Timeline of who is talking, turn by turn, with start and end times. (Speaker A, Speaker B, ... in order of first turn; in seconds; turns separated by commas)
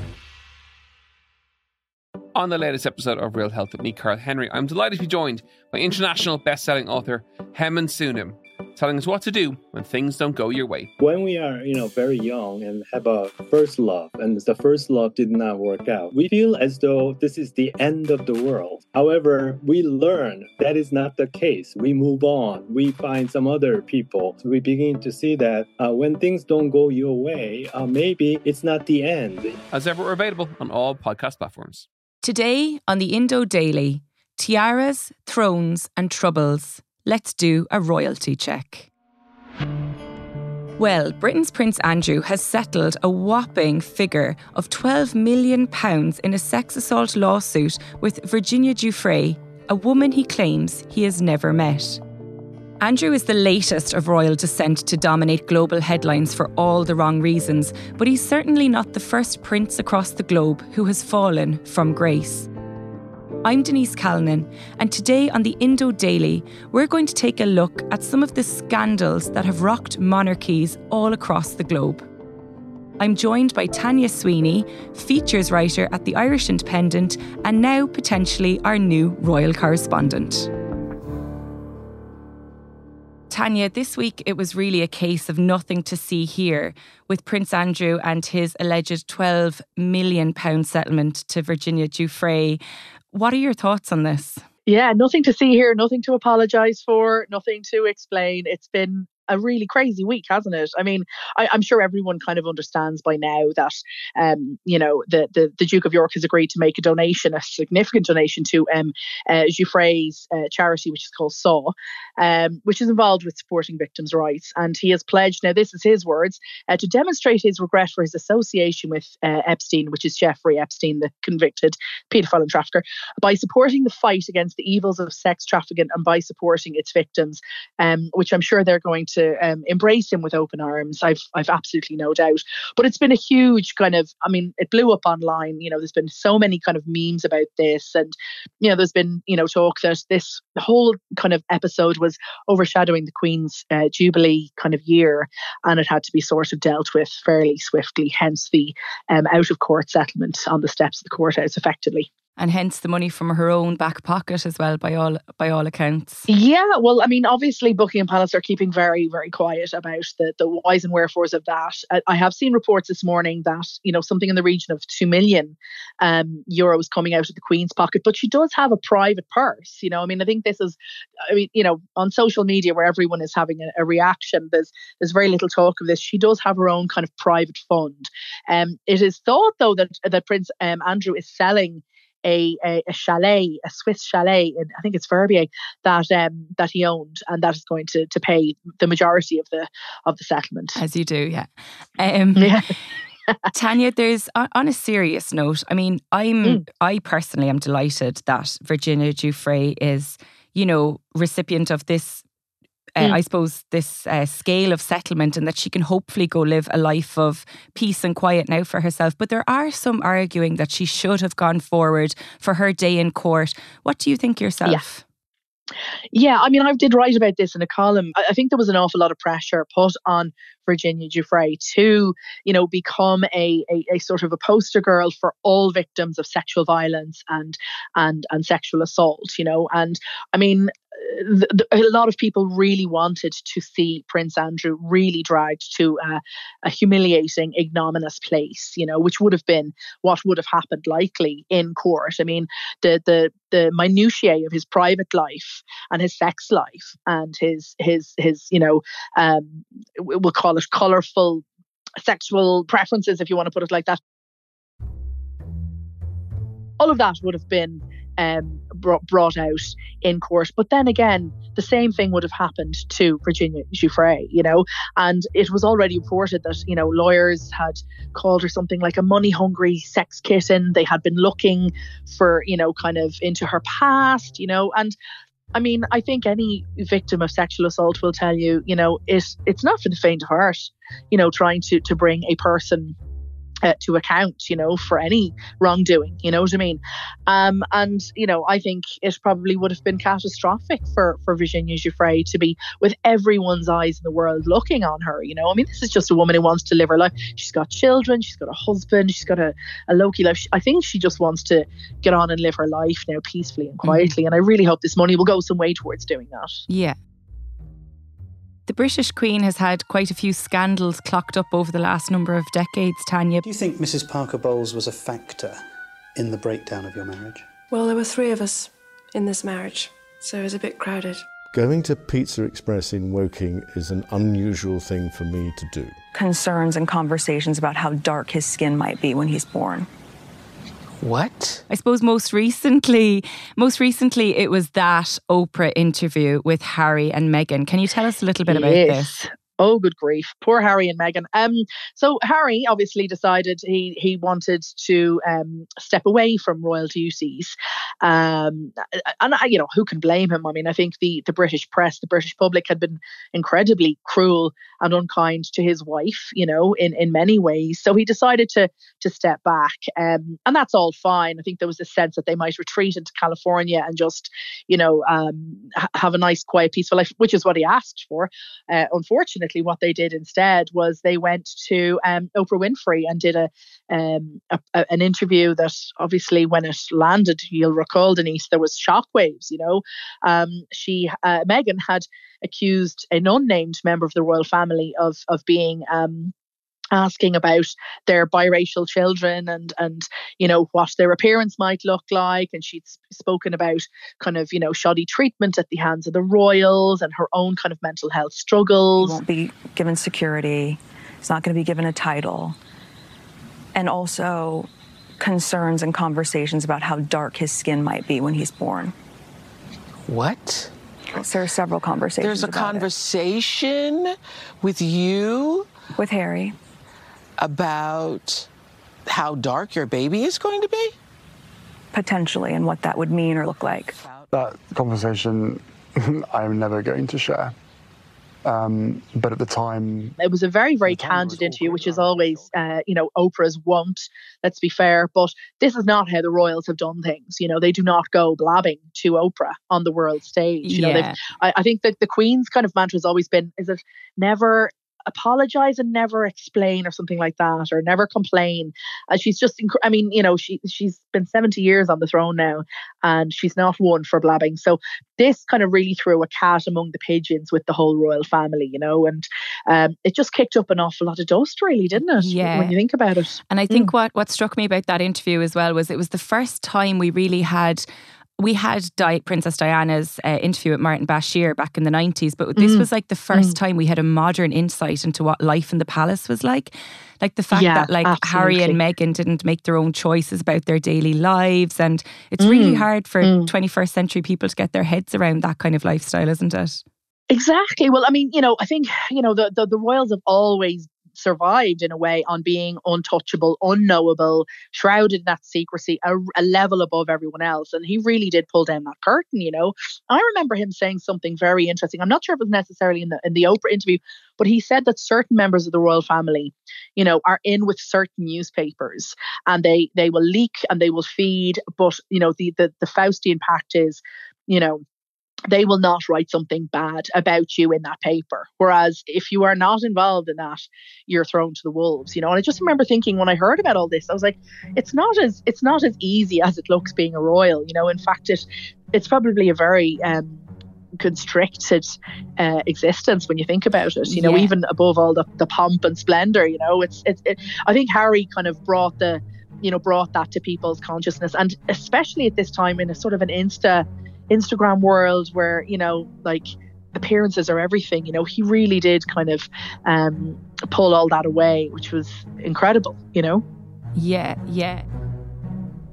Speaker A: 2.3-10.9, Speaker B: 11.0-29.6, Speaker A: 29.7-31.9, Speaker C: 32.2-38.9, Speaker C: 40.8-52.0, Speaker C: 52.8-62.5, Speaker C: 63.4-72.0, Speaker C: 73.0-80.5, Speaker C: 83.3-92.6, Speaker C: 93.1-94.4, Speaker D: 94.7-152.1, Speaker C: 152.4-156.3, Speaker D: 156.3-190.8, Speaker C: 190.8-192.6, Speaker D: 192.3-192.7, Speaker C: 193.5-202.2, Speaker C: 202.9-215.0, Speaker D: 216.1-251.4, Speaker D: 252.0-254.0, Speaker D: 256.8-274.9, Speaker D: 275.5-282.9, Speaker D: 283.6-306.6, Speaker C: 303.8-304.1, Speaker C: 306.7-307.0, Speaker C: 308.7-313.4, Speaker E: 313.4-315.6, Speaker E: 316.1-317.4, Speaker F: 317.7-321.2, Speaker G: 321.5-326.0, Speaker H: 326.1-329.9, Speaker I: 331.0-331.6, Speaker C: 331.7-339.3, Speaker D: 338.5-386.3, Speaker D: 386.9-399.2, Speaker H: 399.0-402.6, Speaker H: 403.7-404.7, Speaker H: 405.2-408.9, Speaker I: 410.1-410.7, Speaker H: 411.1-412.9, Speaker I: 412.2-415.7, Speaker H: 415.9-416.5, Speaker I: 417.4-418.5, Speaker I: 419.1-420.9, Speaker H: 421.9-424.0, Speaker I: 423.9-424.3, Speaker J: 424.3-427.5, Speaker J: 428.4-430.1, Speaker D: 430.2-463.9, Speaker I: 431.3-431.7, Speaker G: 431.7-432.4, Speaker C: 440.6-441.2, Speaker C: 462.1-462.8, Speaker C: 463.5-467.9, Speaker C: 468.4-486.8, Speaker D: 472.6-473.6, Speaker D: 477.5-478.8, Speaker D: 482.4-483.5, Speaker D: 487.3-514.8, Speaker D: 515.5-530.4, Speaker D: 531.0-553.4, Speaker C: 534.0-534.5, Speaker C: 554.0-554.9